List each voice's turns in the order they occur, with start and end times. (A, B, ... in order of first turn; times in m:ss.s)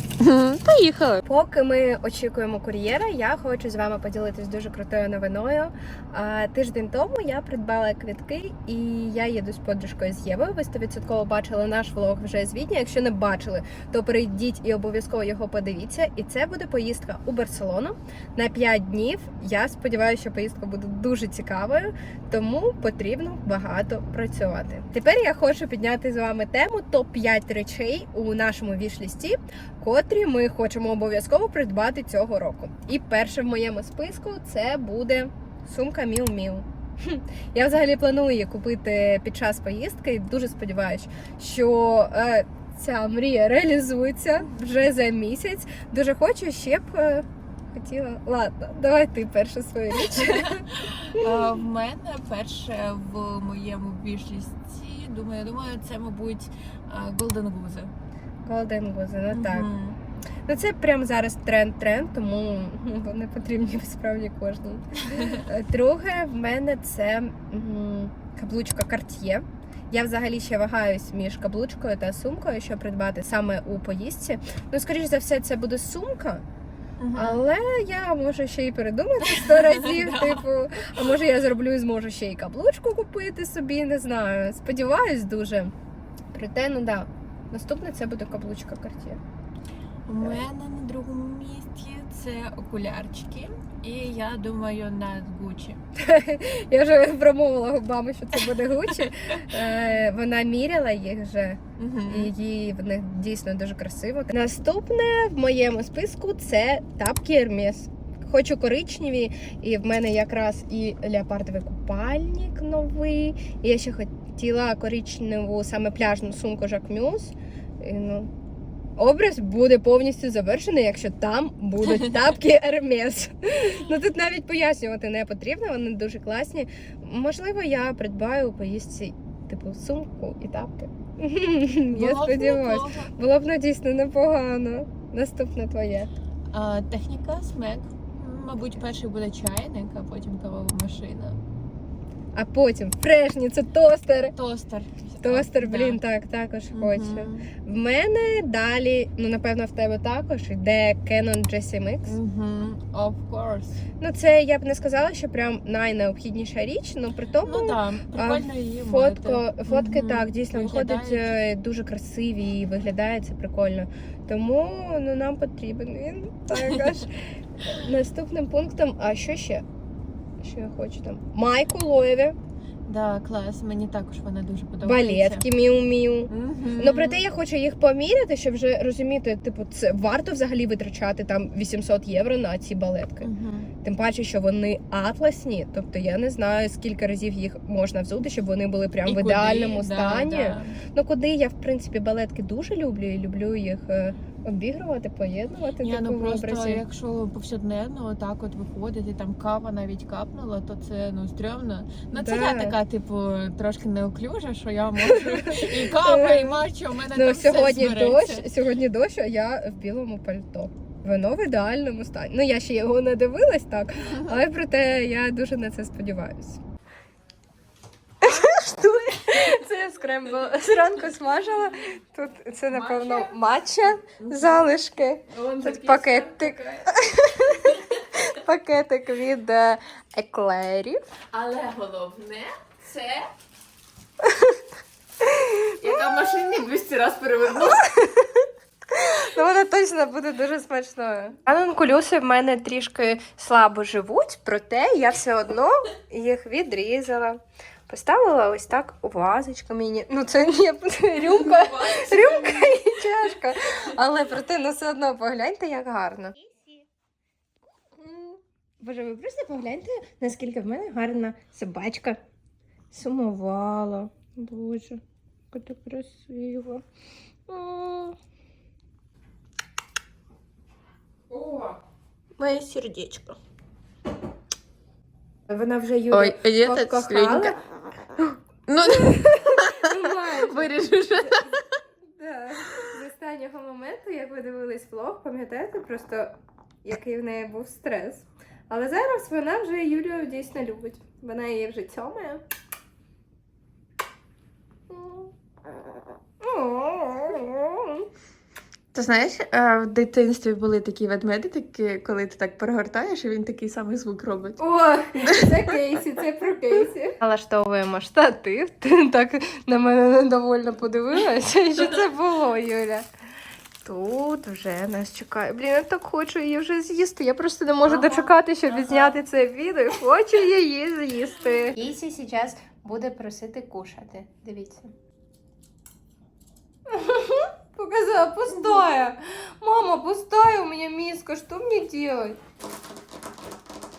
0:00.2-0:01.2 A
0:01.2-0:51.4 B
0:50.1-0:57.9 A
0:58.4-0:59.7 B
0:59.3-1:00.0 A
1:00.5-1:16.4 B
1:17.0-1:17.4 A
1:17.1-1:25.7 B
1:19.3-1:20.4 A
1:26.3-1:29.2 B
1:30.1-1:35.8 A
1:36.0-1:58.3 B
1:41.8-1:42.3 A
1:59.0-2:16.1 B
2:11.9-2:13.1 A
2:16.5-2:21.4 A
2:22.3-2:24.3 B
2:24.3-2:26.0 A
2:25.2-2:32.1 B
2:26.7-2:27.5 A
2:32.0-2:33.8 A
2:34.0-2:49.6 B
2:37.4-2:41.4 A
2:46.5-2:47.0 A
2:50.4-2:52.3 B
2:52.9-2:55.4 A
2:54.8-3:03.3 B
2:56.3-2:57.2 A
3:03.2-3:03.7 A
3:03.8-3:16.8 B
3:09.0-3:10.8 A
3:15.8-3:28.5 A
3:22.1-3:22.8 B
3:25.0-3:26.6 B
3:27.1-3:36.6 B
3:38.2-3:51.0 B
3:38.2-3:38.6 A
3:40.4-3:41.2 A
3:42.7-3:43.4 A
3:44.0-3:46.9 A
3:47.4-3:48.0 A
3:51.3-3:53.3 A
3:54.2-3:54.6 B
3:55.2-3:55.7 B
3:55.8-3:57.8 A
3:57.8-4:16.8 B
4:11.2-4:13.0 A
4:18.8-4:22.2 B
4:22.9-4:25.0 B
4:25.5-4:26.8 B
4:27.5-4:28.2 B
4:31.3-4:31.7 B
4:32.4-4:33.4 B
4:35.5-4:37.6 B
4:36.1-4:37.6 A
4:38.7-4:41.8 A
4:38.9-4:40.7 B
4:42.1-4:46.3 B
4:46.8-4:52.4 B
4:54.9-4:55.3 B
4:56.4-4:58.1 B
4:58.9-5:04.6 A
5:04.6-5:13.0 B
5:05.1-5:05.8 A
5:13.8-5:24.9 B
5:17.8-5:19.2 A
5:26.9-5:32.4 B